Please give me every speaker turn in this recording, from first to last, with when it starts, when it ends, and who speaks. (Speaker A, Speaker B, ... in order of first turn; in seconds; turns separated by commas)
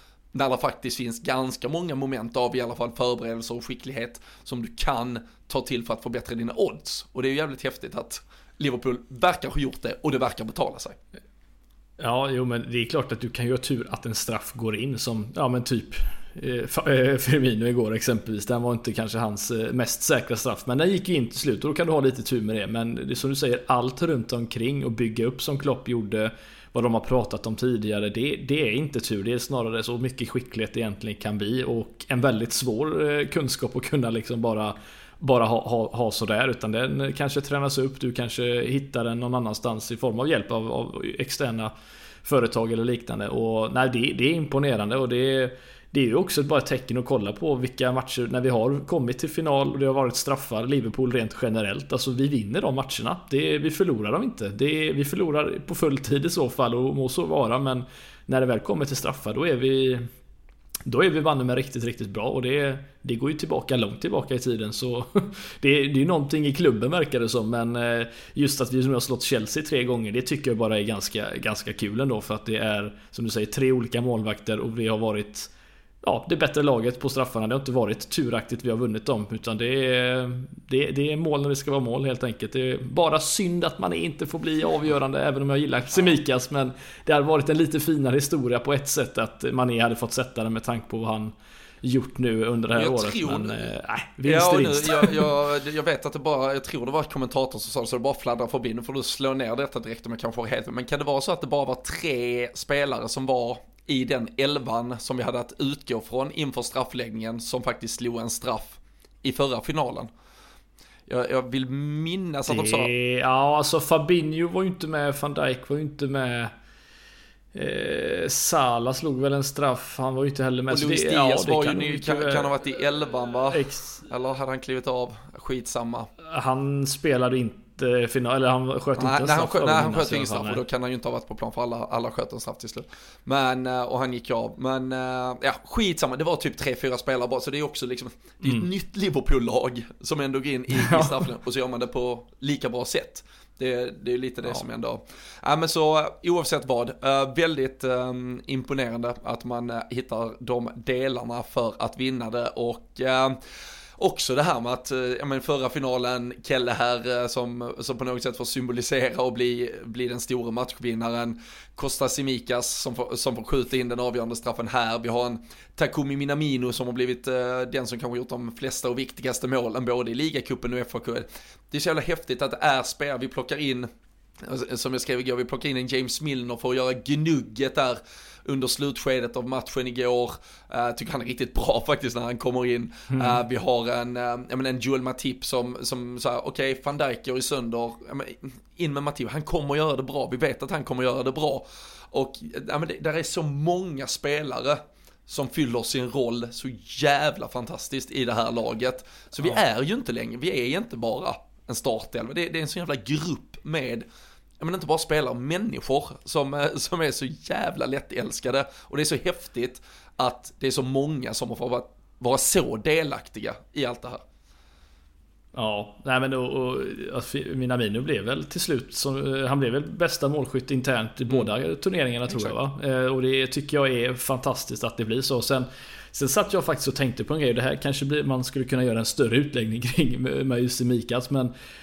Speaker A: 0.3-11.0, Speaker B: 12.0-41.7, Speaker B: 42.2-60.1, Speaker B: 60.9-75.5, Speaker B: 76.0-95.2, Speaker A: 92.7-93.7, Speaker A: 94.2-110.1, Speaker A: 111.1-112.9, Speaker B: 112.5-116.5, Speaker B: 117.5-122.5, Speaker A: 120.7-126.1, Speaker B: 123.5-124.0, Speaker B: 126.2-130.6, Speaker A: 128.9-153.4, Speaker B: 140.7-141.2, Speaker A: 154.0-173.9, Speaker A: 174.4-204.1, Speaker B: 183.1-183.4, Speaker A: 204.6-214.2, Speaker B: 215.5-231.5